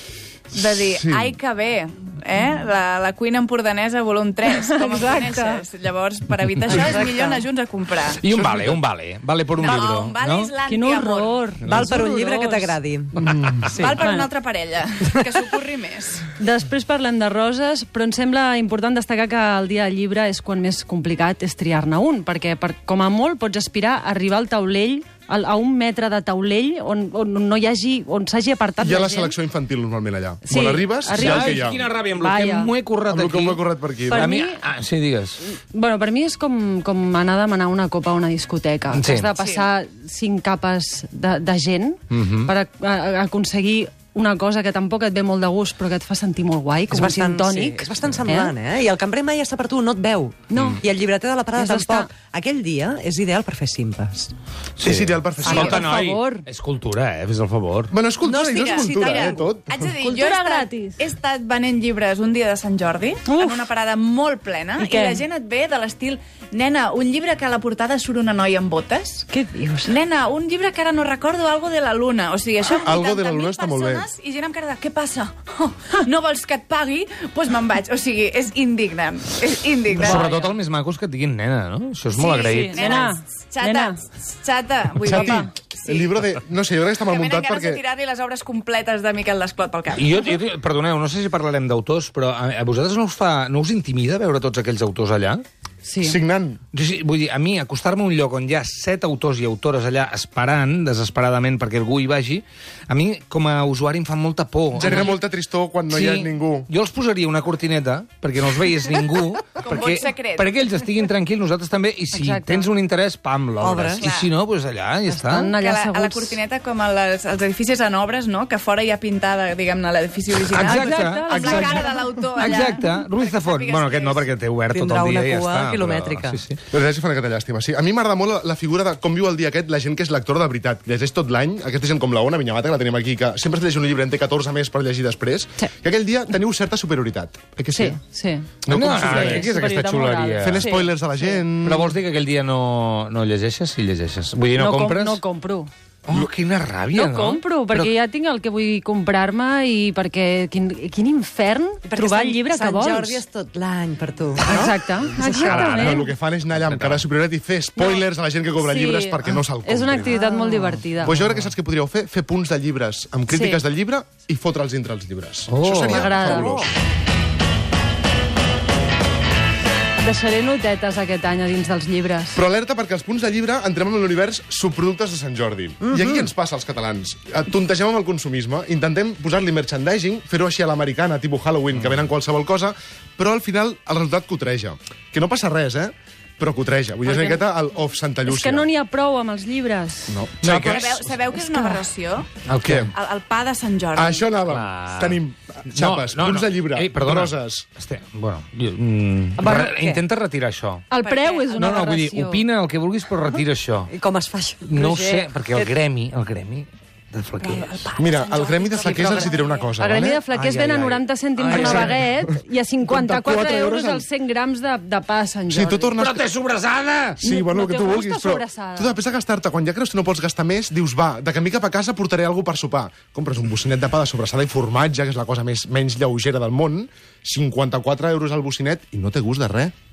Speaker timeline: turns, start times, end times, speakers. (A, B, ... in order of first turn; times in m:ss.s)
0:00.5-0:08.2 A
0:00.8-0:01.3 B
0:04.5-0:05.6 C
0:06.7-0:07.4 C
0:08.2-0:10.5 D
0:08.3-0:08.8 B
0:09.6-0:11.4 A
0:10.7-0:12.8 C
0:11.6-0:11.9 D
0:11.6-0:13.2 E
0:13.2-0:13.7 B
0:13.8-0:16.3 A
0:14.0-0:14.3 C
0:16.4-0:29.3 C
0:28.8-0:31.8 B
0:30.4-0:32.7 C
0:31.1-0:35.4 D
0:33.1-0:34.3 B
0:34.1-0:34.6 C
0:35.5-0:48.6 C
0:38.9-0:39.3 D
0:39.3-0:39.6 A
0:42.1-0:42.5 D
0:46.9-0:54.3 E
0:50.5-0:50.8 C
0:51.5-0:52.1 C
0:54.8-0:57.9 D
0:54.8-0:55.8 B
0:55.4-0:56.4 C
0:57.9-1:00.0 B
0:58.2-0:59.6 E
0:58.4-1:09.3 A
1:00.0-1:01.0 C
1:03.3-1:03.6 C
1:04.8-1:05.2 C
1:09.3-1:09.9 C
1:09.8-1:20.3 A
1:12.8-1:14.0 B
1:20.0-1:22.8 D
1:20.0-1:20.5 C
1:22.1-1:26.1 A
1:22.4-1:24.0 C
1:25.0-1:27.8 B
1:25.0-1:25.5 C
1:27.0-1:30.4 A
1:29.9-1:35.4 D
1:35.8-1:36.2 C
1:36.0-1:36.6 B
1:36.7-1:45.2 D
1:44.8-1:46.7 B
1:45.9-1:55.5 D
1:49.6-1:50.5 A
1:52.1-1:52.7 C
1:53.6-1:54.0 E
1:54.0-1:54.3 A
1:55.1-1:56.4 C
1:55.6-2:04.3 A
2:00.4-2:06.6 D
2:00.7-2:01.9 C
2:01.4-2:01.7 B
2:04.7-2:06.4 E
2:06.7-2:18.0 B
2:17.7-2:21.4 C
2:18.6-2:19.5 B
2:18.7-2:20.7 D
2:20.4-2:21.9 B
2:21.6-2:25.2 D
2:24.6-2:25.7 C
2:26.1-2:27.9 D
2:26.9-2:33.2 C
2:31.8-2:35.8 E
2:34.4-2:36.1 C
2:35.2-2:37.0 D
2:35.7-2:40.2 B
2:37.8-2:38.0 C
2:38.6-2:41.1 C
2:40.3-2:40.7 E
2:41.0-2:46.7 B
2:41.1-2:41.5 D
2:43.3-2:43.6 C
2:45.5-2:46.5 D
2:45.7-2:46.6 C
2:50.0-2:52.4 C
2:52.3-3:08.7 B
2:55.8-2:56.2 E
3:07.1-3:07.4 C
3:08.2-3:10.2 C
3:10.1-3:10.8 B
3:10.4-3:11.0 D
3:10.4-3:14.4 A
3:12.4-3:12.9 D
3:12.6-3:12.9 B
3:13.9-3:17.6 B
3:14.5-3:20.9 D
3:19.4-3:20.0 E
3:20.9-3:22.4 C
3:21.0-3:21.8 A
3:21.5-3:23.9 D
3:23.9-3:25.7 E
3:24.6-3:27.9 D
3:27.4-3:29.3 E
3:28.0-3:30.2 B
3:28.4-3:29.7 A
3:29.8-3:35.9 C
3:30.3-3:31.9 E
3:31.5-3:31.9 B
3:32.8-3:34.0 B
3:35.5-3:36.3 B
3:36.0-3:37.2 D
3:37.2-3:49.7 B
3:37.2-3:38.9 C